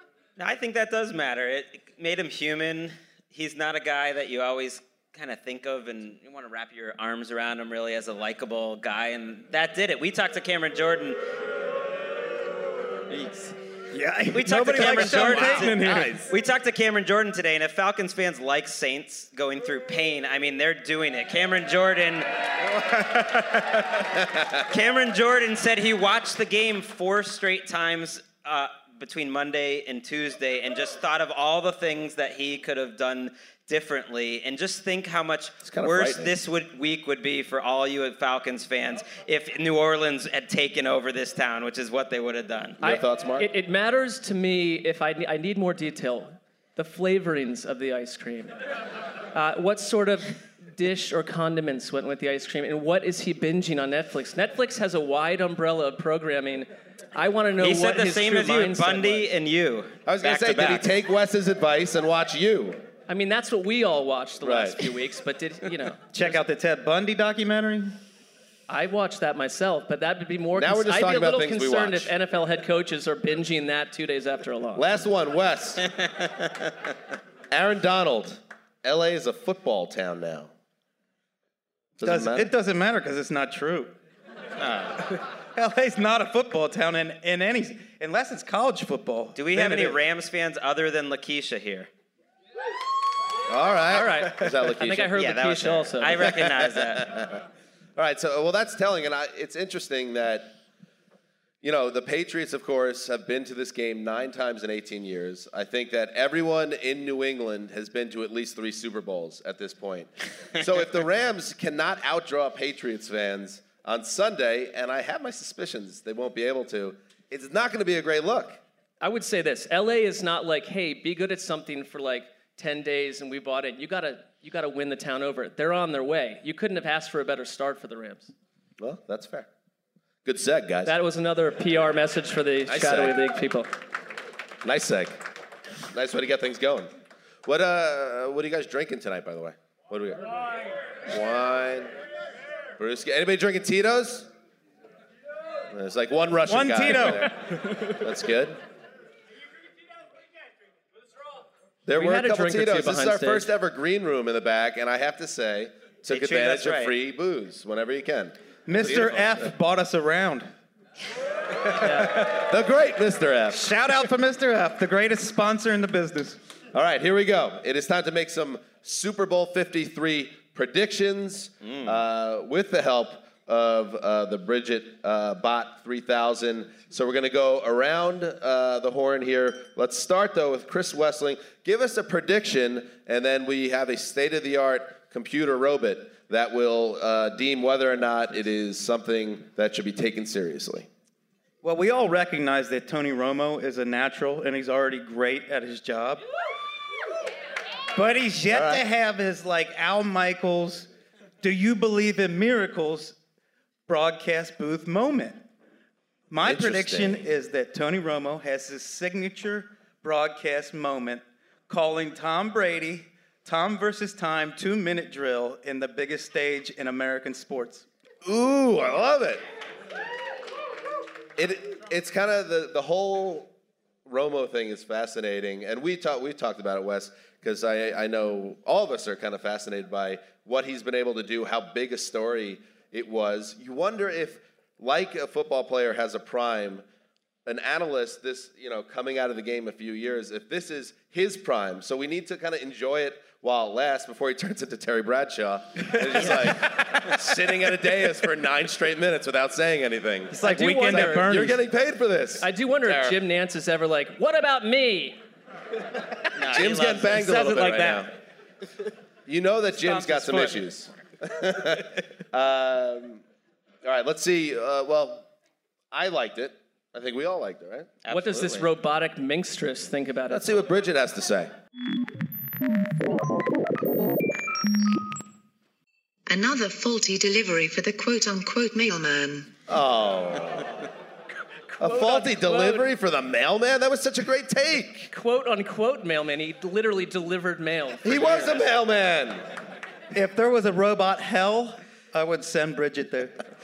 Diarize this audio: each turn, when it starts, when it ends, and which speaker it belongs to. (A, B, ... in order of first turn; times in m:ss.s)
0:00.4-0:11.2 A
0:13.1-0:13.6 A
0:13.9-0:16.3 B
0:14.3-0:22.4 A
0:14.9-0:15.7 C
0:24.6-0:42.8 A
0:35.6-0:36.3 C
0:42.8-0:48.6 D
0:42.8-0:43.5 C
0:49.3-0:59.3 D
0:57.6-1:00.9 A
1:00.1-1:02.8 C
1:03.1-1:06.4 D
1:04.4-1:04.9 C
1:06.1-1:08.0 B
1:08.7-1:14.9 D
1:10.6-1:12.1 C
1:14.8-1:15.8 C
1:16.0-1:16.3 A
1:17.5-1:20.5 C
1:22.0-1:22.5 C
1:22.0-1:24.0 B
1:24.6-1:25.1 A
1:25.6-1:30.0 B
1:29.4-1:31.9 A
1:33.5-1:35.1 C
1:33.9-1:36.4 D
1:35.2-1:37.3 A
1:36.2-1:37.4 C
1:38.0-1:40.6 C
1:41.6-1:58.6 C
1:59.0-2:08.3 D
2:08.8-2:09.5 C
2:10.2-2:10.9 C
2:10.8-2:13.7 D
2:12.7-2:13.2 C
2:14.6-2:15.2 C
2:15.9-2:16.9 C
2:17.4-2:20.3 C
2:21.1-2:21.9 C
2:22.8-2:24.3 C
2:25.7-2:28.6 C
2:26.5-2:27.3 B
2:31.9-2:39.5 C
2:31.9-2:33.5 D
2:36.1-2:36.9 A
2:38.7-2:40.5 B
2:41.8-2:43.7 C
2:43.5-2:46.4 B
2:46.7-3:10.9 C
2:51.6-2:51.9 A
3:11.6-3:16.2 B
3:17.9-3:20.9 B
3:18.5-3:18.8 C
3:21.4-3:23.2 B
3:23.9-3:25.4 B
3:26.3-3:37.9 B
3:26.4-3:27.2 C
3:38.2-3:39.4 C
3:41.4-3:43.5 C
3:44.0-3:56.8 C
3:57.5-4:13.2 C
4:10.3-4:11.6 B
4:10.4-4:11.5 D
4:12.4-4:15.2 D
4:16.4-4:17.2 A
4:16.4-4:18.1 C
4:17.0-4:18.1 D
4:19.3-4:23.2 C
4:19.9-4:20.5 B
4:23.8-4:25.3 C
4:25.9-4:28.0 C
4:28.0-4:28.7 A
4:28.1-4:30.6 D
4:30.3-4:31.5 C
4:36.3-4:39.5 E
4:39.7-4:40.7 C
4:41.8-4:42.9 D
4:41.8-4:45.1 C
4:45.1-4:48.7 D
4:48.0-4:49.4 C
4:50.1-4:53.4 B